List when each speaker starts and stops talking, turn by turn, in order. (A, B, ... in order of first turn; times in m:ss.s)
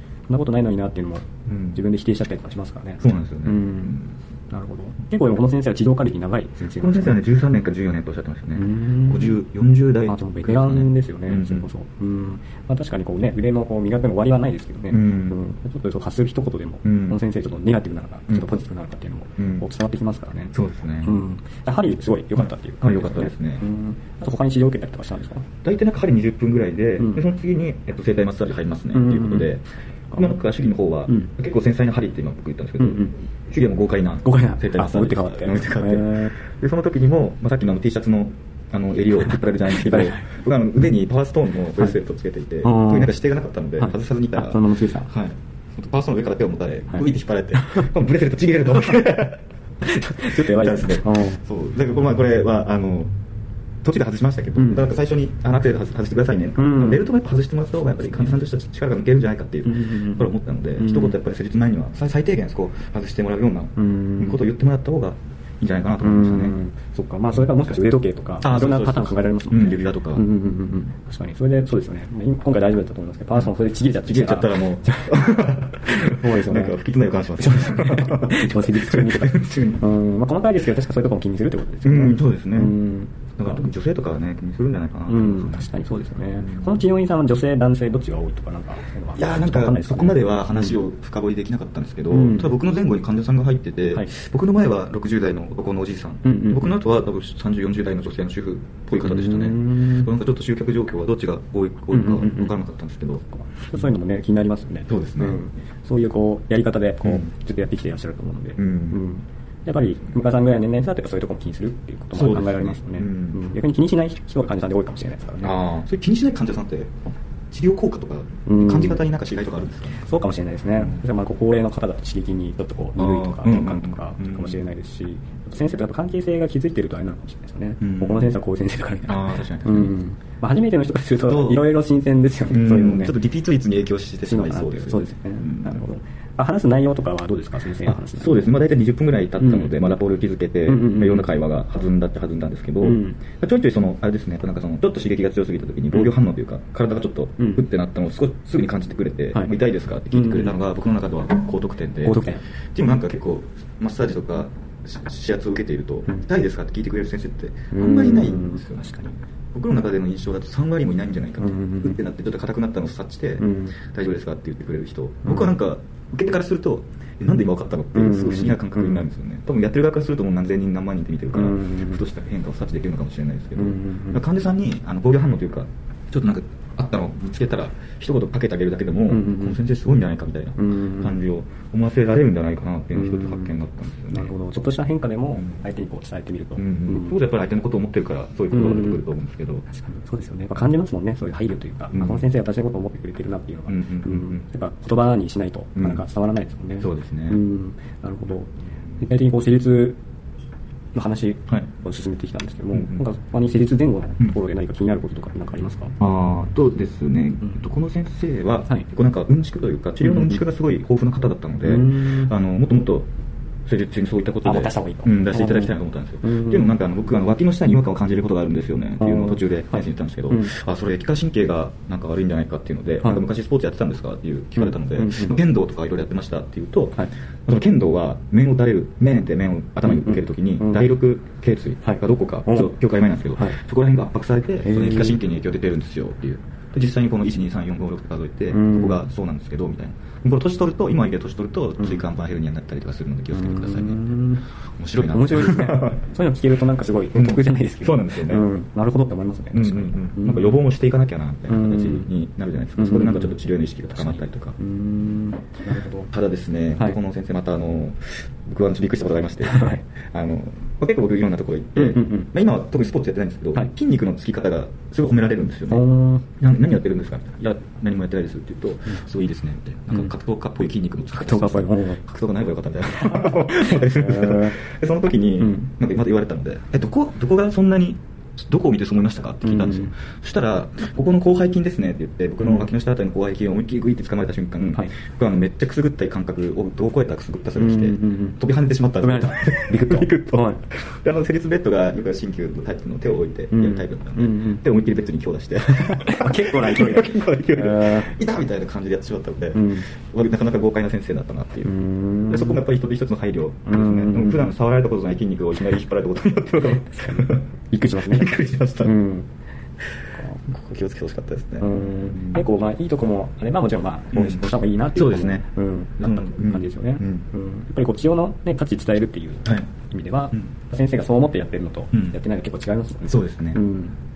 0:00.3-0:07.2 A
0:01.5-0:01.8 B
0:03.0-0:04.1 B
0:06.8-0:11.6 B
0:08.6-0:09.4 A
0:10.1-0:20.5 A
0:14.9-0:15.4 B
0:16.8-0:17.2 B
0:19.4-0:19.6 B
0:20.5-0:21.2 B
0:21.0-0:25.4 A
0:22.4-0:23.6 B
0:25.6-0:53.1 B
0:28.9-0:29.5 A
0:32.8-0:33.1 A
0:34.2-0:36.3 A
0:39.7-0:40.2 A
0:42.6-0:43.1 A
0:43.8-0:45.1 A
0:47.6-0:47.9 A
0:49.8-0:51.4 A
0:53.8-1:06.6 B
0:54.6-0:54.8 A
0:56.6-0:57.0 A
0:59.7-1:01.1 A
1:03.8-1:04.4 A
1:06.0-1:16.8 A
1:08.4-1:10.2 B
1:14.0-1:19.8 B
1:17.4-1:23.6 A
1:21.8-1:22.8 B
1:23.4-1:25.7 B
1:25.1-1:30.7 A
1:26.4-1:26.8 B
1:29.2-1:43.2 B
1:32.1-1:32.5 A
1:36.2-1:36.7 A
1:39.0-1:40.1 A
1:41.9-1:42.5 A
1:43.5-1:55.6 A
1:44.9-1:45.4 B
1:48.6-1:49.0 B
1:52.1-1:53.4 B
1:55.4-2:00.0 B
1:58.5-1:59.0 A
1:59.9-2:13.2 A
2:03.0-2:04.6 B
2:07.8-2:08.4 B
2:09.0-2:09.9 B
2:11.2-2:11.7 B
2:12.5-2:15.8 B
2:14.2-2:18.5 A
2:17.8-3:04.3 B
2:19.4-2:19.7 A
2:20.7-2:21.2 A
2:22.8-2:23.2 A
2:30.1-2:30.5 A
2:32.0-2:32.4 A
2:37.7-2:39.1 A
2:41.4-2:42.0 A
2:43.4-2:43.8 A
2:48.0-2:49.0 A
2:51.4-2:52.0 A
2:53.6-2:54.2 A
2:59.1-2:59.6 A
3:00.6-3:01.1 A
3:03.0-3:03.5 A
3:04.1-3:07.1 A
3:06.6-3:09.6 B
3:08.5-3:09.0 A
3:09.7-3:20.0 A
3:11.9-3:12.2 B
3:13.7-3:14.4 B
3:16.8-3:17.4 B
3:20.9-3:25.9 A
3:22.7-3:23.0 B
3:26.0-3:33.1 B
3:30.0-3:30.4 A
3:31.7-3:32.3 A
3:33.6-4:04.1 B
3:34.4-3:36.7 A
3:39.0-3:39.4 A
3:44.6-3:45.4 A
3:49.9-3:50.8 A
3:51.8-3:52.7 A
3:54.6-3:55.2 A
3:58.5-3:59.0 A
4:03.3-4:04.4 A
4:04.8-4:06.0 B
4:05.0-4:10.6 A
4:07.1-4:08.5 B
4:09.5-4:14.6 B
4:11.5-4:12.1 A
4:12.8-4:13.4 A
4:13.9-4:16.1 A
4:16.1-4:25.8 B
4:19.4-4:19.8 A
4:21.8-4:22.3 A
4:25.7-4:26.2 A
4:26.4-5:07.4 B
4:31.1-4:32.0 A
4:33.0-4:34.6 A
4:35.4-4:35.7 A
4:39.4-4:39.9 A
4:47.6-4:48.4 A
4:49.0-4:50.6 A
4:53.5-4:54.6 A
4:55.7-4:58.1 A
4:59.5-4:59.8 A
5:01.6-5:02.6 A
5:03.7-5:04.5 A
5:06.8-5:09.3 A
5:08.0-5:09.0 B
5:10.5-5:12.4 B
5:11.6-5:23.9 A
5:14.1-5:15.4 B
5:16.0-5:17.2 B
5:23.1-5:23.6 B